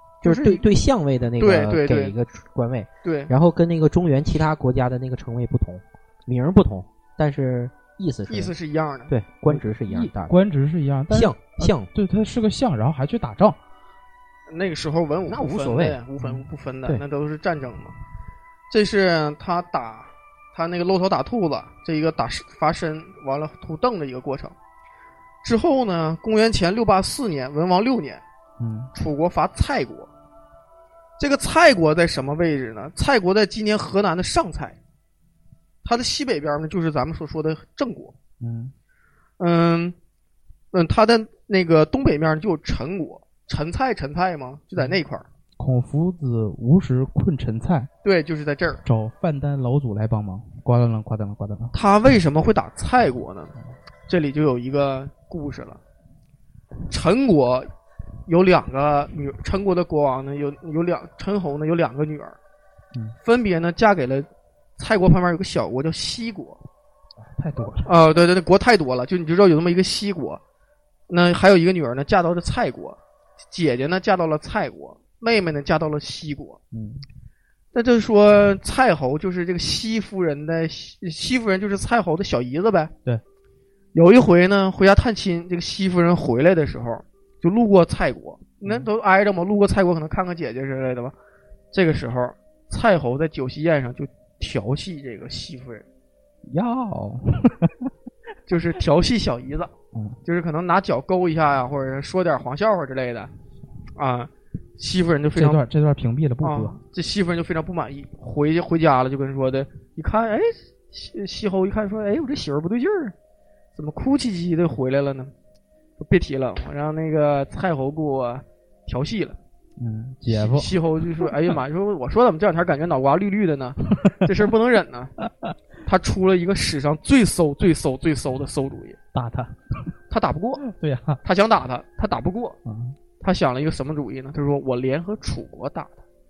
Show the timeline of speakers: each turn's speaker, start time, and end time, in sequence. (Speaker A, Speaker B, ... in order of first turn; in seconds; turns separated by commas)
Speaker A: 0.2-8.5, Speaker B: 0.2-0.6, Speaker B: 1.4-2.1, Speaker B: 3.0-3.3, Speaker B: 8.3-9.1, Speaker A: 9.1-10.4, Speaker C: 9.5-13.6, Speaker A: 11.1-11.9, Speaker B: 14.5-17.9, Speaker A: 15.3-16.0, Speaker B: 18.7-24.5, Speaker B: 25.4-28.2, Speaker C: 28.6-28.9, Speaker B: 28.9-30.1, Speaker B: 31.2-34.8, Speaker B: 35.8-38.1, Speaker C: 38.4-38.7, Speaker B: 39.4-39.9, Speaker B: 40.7-45.2, Speaker C: 45.6-47.9, Speaker B: 48.0-48.8, Speaker C: 48.8-51.7, Speaker B: 51.7-53.5, Speaker B: 54.1-55.8, Speaker B: 56.9-57.7, Speaker B: 58.3-62.4, Speaker B: 63.2-66.6, Speaker C: 67.2-67.9, Speaker B: 67.8-70.4, Speaker B: 71.1-73.0, Speaker B: 73.5-76.6, Speaker C: 76.7-77.0, Speaker B: 77.7-82.9, Speaker B: 83.9-91.1, Speaker B: 91.7-95.8, Speaker C: 96.5-97.9, Speaker B: 98.5-99.7, Speaker C: 99.9-100.2, Speaker B: 100.2-103.3, Speaker B: 104.0-105.6, Speaker C: 105.3-106.8, Speaker B: 106.4-113.1, Speaker B: 113.7-115.3, Speaker B: 116.0-119.4, Speaker C: 119.8-121.3, Speaker B: 120.3-125.1, Speaker C: 125.2-125.5, Speaker B: 125.8-129.0, Speaker C: 129.1-129.7, Speaker B: 130.1-130.6, Speaker C: 130.6-131.2, Speaker B: 131.2-132.6, Speaker C: 132.7-132.9, Speaker B: 133.2-136.0